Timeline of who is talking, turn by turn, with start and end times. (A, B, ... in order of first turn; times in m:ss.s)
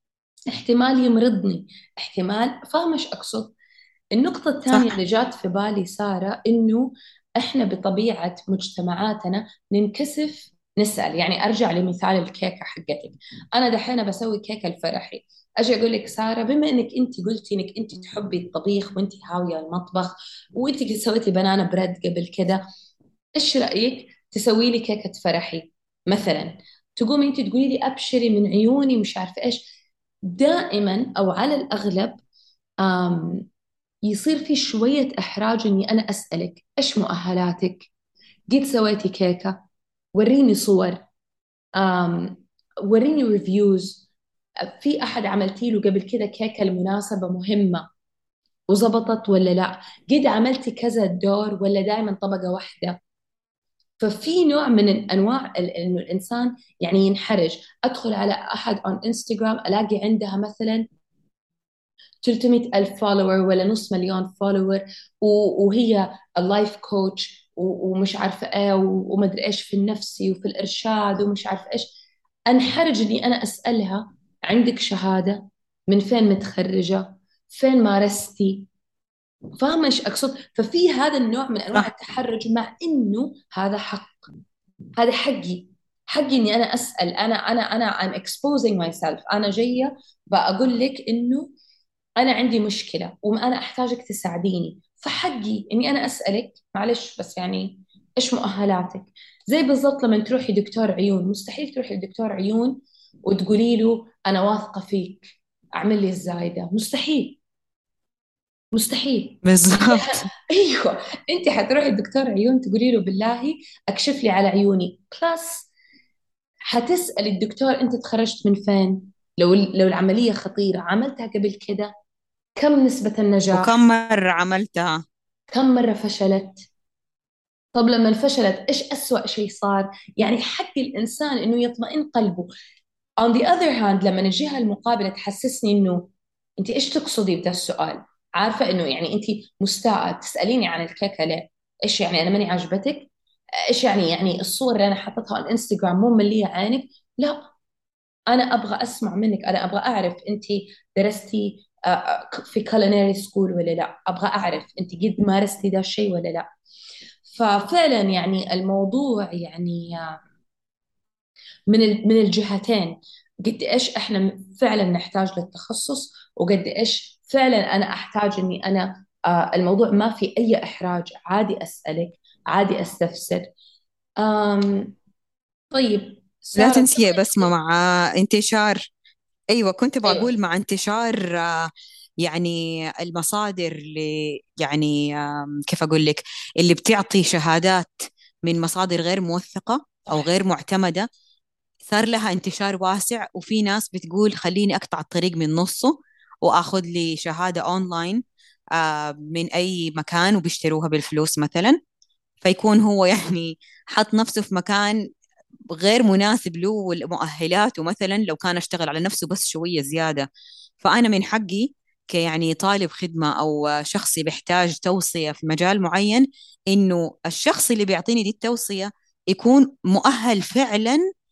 0:00.5-0:03.5 A
0:04.1-0:22.6 A
0:04.7-0:05.0 B
0:23.3-0:29.7 A
0:30.2-0:32.2 A
0:32.8-0:33.4 A
0:34.1-0:37.9 A
0:38.5-0:39.6 A
0:40.1-0:41.0 A
0:41.8-0:44.0 A
0:44.7-0:47.8 A
0:48.7-0:53.0 A
0:54.0-1:00.9 A
1:02.2-1:11.9 A
1:12.5-1:18.7 A
1:19.6-1:24.2 A
1:25.0-1:31.5 A
1:32.2-1:47.4 A
1:48.7-1:55.7 A
1:49.4-1:50.3 B
1:56.7-2:01.9 A
2:02.6-2:03.8 A
2:03.5-2:05.0 B
2:05.5-2:06.6 A
2:07.7-2:12.5 A
2:13.2-2:16.1 A
2:16.6-2:23.1 A
2:23.7-2:27.5 A
2:28.3-2:36.5 A
2:37.2-2:40.2 A
2:41.7-2:53.5 A
2:54.2-2:54.9 A
2:55.7-2:57.5 A
2:56.5-2:58.8 B
2:59.5-3:01.7 B
3:00.0-3:00.3 A
3:02.2-3:11.1 B
3:11.8-3:18.2 B
3:18.7-3:21.8 B
3:22.4-3:25.0 B
3:25.7-3:30.3 B
3:30.8-3:41.0 B